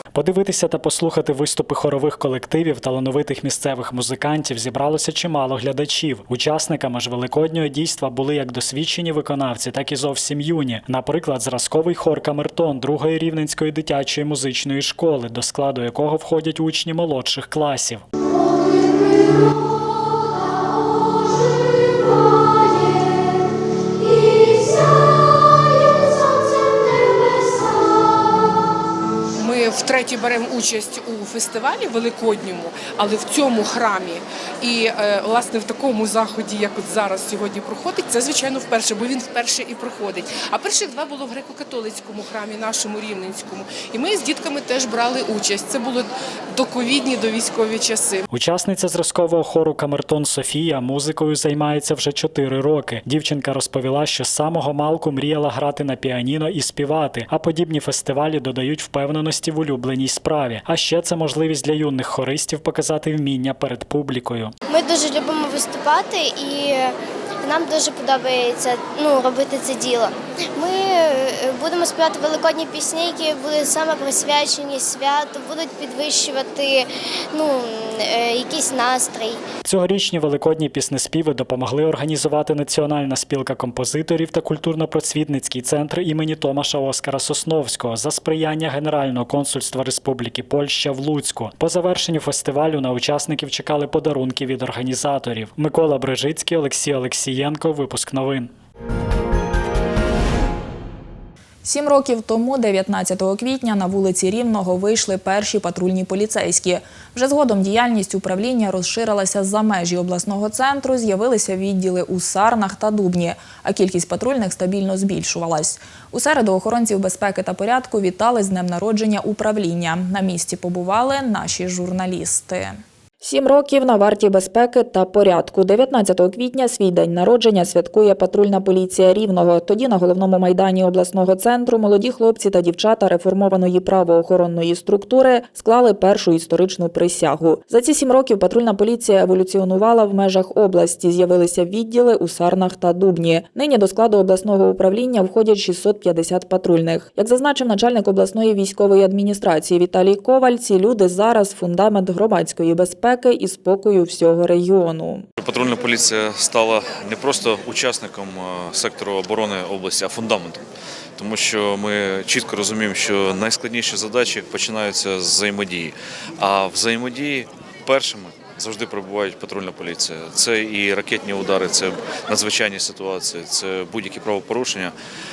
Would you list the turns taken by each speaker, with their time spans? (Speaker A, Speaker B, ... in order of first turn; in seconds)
Speaker A: 0.1-18.0, 48.3-64.5, 79.6-98.5
Speaker B: 29.4-48.2
Speaker C: 64.7-79.4
Speaker D: 101.6-155.2
Speaker E: 155.4-160.6, 161.2-174.9